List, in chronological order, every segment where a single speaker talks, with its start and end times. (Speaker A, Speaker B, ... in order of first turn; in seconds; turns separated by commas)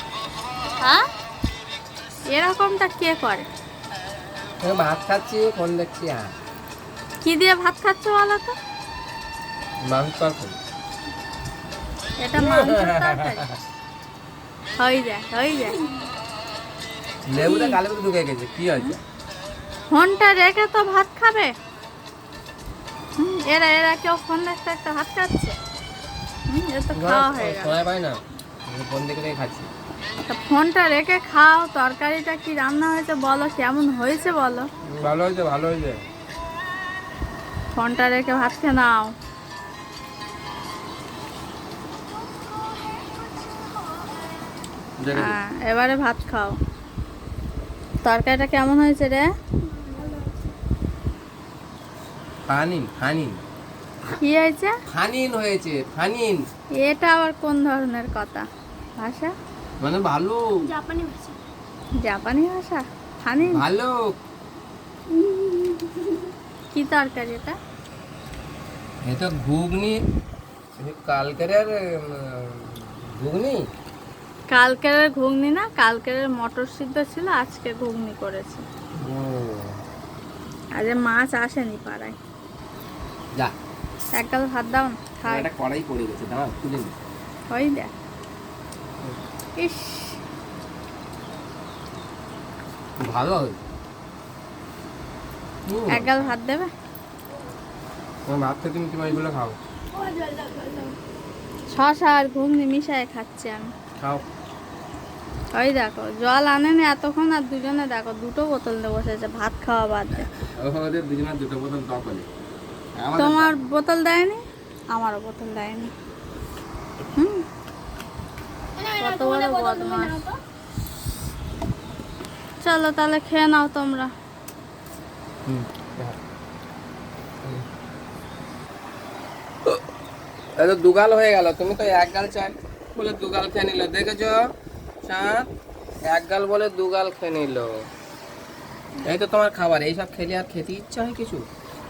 Speaker A: 2.3-3.5, Speaker B: 4.6-6.3, Speaker A: 7.2-8.6, Speaker B: 9.9-10.6, Speaker A: 12.2-13.5, Speaker B: 12.4-13.5, Speaker A: 14.8-15.8, Speaker B: 17.3-19.0, Speaker A: 17.4-17.8, Speaker A: 19.9-21.5, Speaker A: 23.2-25.6, Speaker A: 26.5-27.8, Speaker B: 26.9-29.7, Speaker A: 30.3-34.7, Speaker B: 34.9-36.0, Speaker A: 37.8-39.1, Speaker C: 42.5-44.1, Speaker B: 45.0-45.4, Speaker A: 45.1-46.6, Speaker A: 48.0-49.3, Speaker C: 49.7-50.4, Speaker B: 52.5-53.3, Speaker A: 54.1-54.8, Speaker B: 54.9-56.4, Speaker A: 56.8-58.5, Speaker A: 59.0-59.3, Speaker B: 59.8-60.4, Speaker C: 60.6-61.4, Speaker A: 62.0-63.6, Speaker B: 63.4-64.1, Speaker C: 65.2-66.2, Speaker A: 66.7-67.5, Speaker B: 69.0-70.0, Speaker B: 70.8-73.6, Speaker A: 74.5-78.6, Speaker B: 79.0-79.8, Speaker A: 80.8-82.2, Speaker A: 84.2-85.5, Speaker B: 85.3-86.9, Speaker A: 87.5-87.9, Speaker A: 89.6-90.2, Speaker B: 93.0-93.6, Speaker B: 95.7-96.3, Speaker A: 95.9-96.7, Speaker B: 98.3-99.6, Speaker C: 99.9-100.9, Speaker A: 101.7-103.7, Speaker B: 104.0-104.2, Speaker A: 105.6-110.3, Speaker B: 110.6-112.3, Speaker B: 113.0-113.5, Speaker A: 113.2-114.4, Speaker A: 114.9-115.9, Speaker A: 117.2-117.4, Speaker C: 118.8-120.4, Speaker A: 119.0-120.2, Speaker A: 122.6-124.1, Speaker B: 125.5-126.2, Speaker B: 130.6-134.4, Speaker B: 135.0-135.5, Speaker B: 136.1-137.7, Speaker B: 139.0-141.5